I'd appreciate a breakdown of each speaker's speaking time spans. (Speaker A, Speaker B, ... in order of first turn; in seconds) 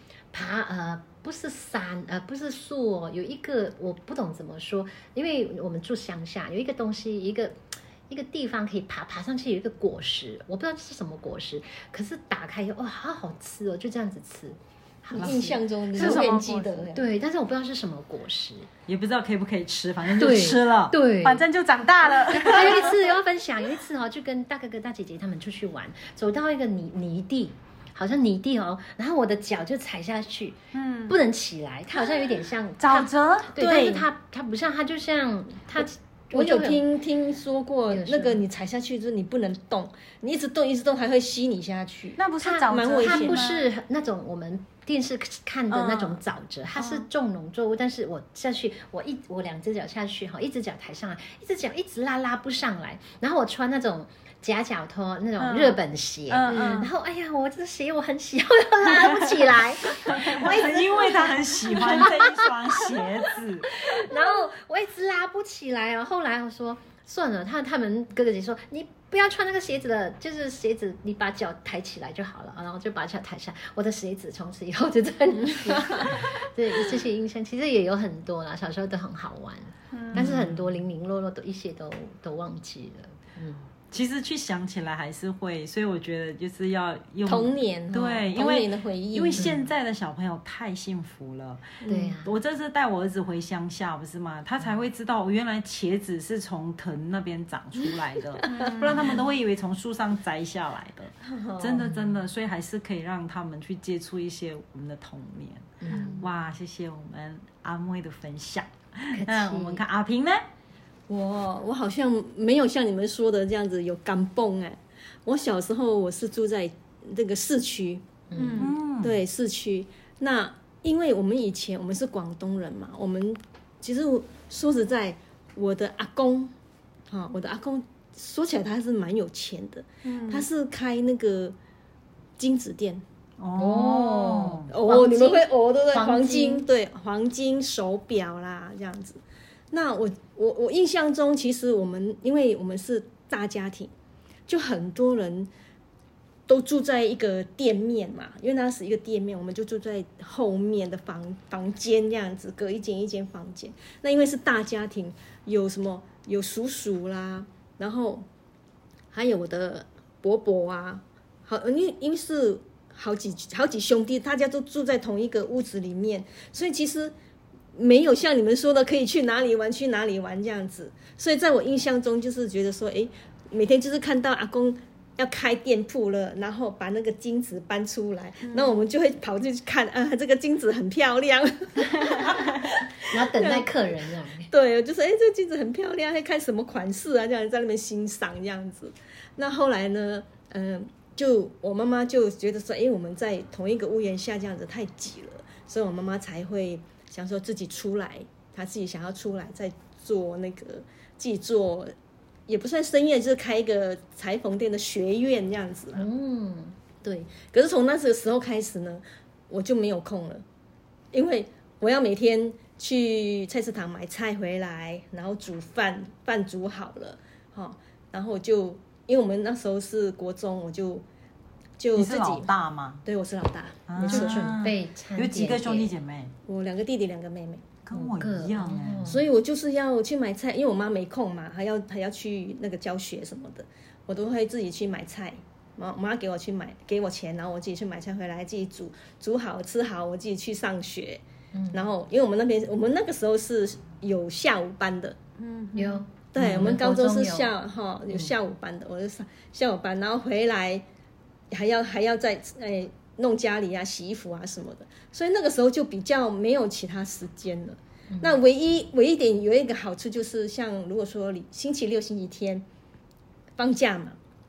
Speaker A: 0.3-16.4, 16.9-18.7, 20.2-21.5, 22.2-36.8, 37.9-38.4, 42.4-62.6, 63.6-83.7, 89.4-89.7, 91.9-92.3, 101.8-102.2, 105.8-106.3, 109.1-109.8, 118.3-118.7, 133.6-136.7, 183.0-184.5, 205.9-206.8, 224.0-225.9, 227.9-229.3, 241.5-241.9, 245.8-247.6, 258.1-258.4
Speaker B: 15.1-17.1, 33.6-34.1, 35.8-43.5, 87.2-89.6, 91.8-92.1, 101.3-101.8, 111.1-118.0, 119.0-126.5, 127.1-131.6, 132.4-133.0, 134.7-143.9, 144.5-145.5, 146.5-158.2, 159.1-167.1, 167.8-183.7, 184.5-201.9, 202.5-206.1, 207.0-210.4, 211.1-221.1, 221.8-222.5, 223.0-224.5, 226.4-227.7, 229.1-245.2, 246.3-250.8, 251.5-262.6, 263.6-264.2
Speaker C: 15.9-16.9, 21.2-22.9, 30.7-31.2, 32.8-33.6, 42.2-43.7, 45.7-46.2, 46.7-47.1, 55.4-56.9, 98.5-99.1, 118.4-118.8, 130.0-130.5, 178.4-178.8, 245.4-246.1
Speaker D: 18.9-21.0, 60.1-63.7, 80.1-80.7, 83.9-110.4, 118.6-119.2, 133.4-134.7, 221.9-223.0, 223.9-226.3, 227.8-229.1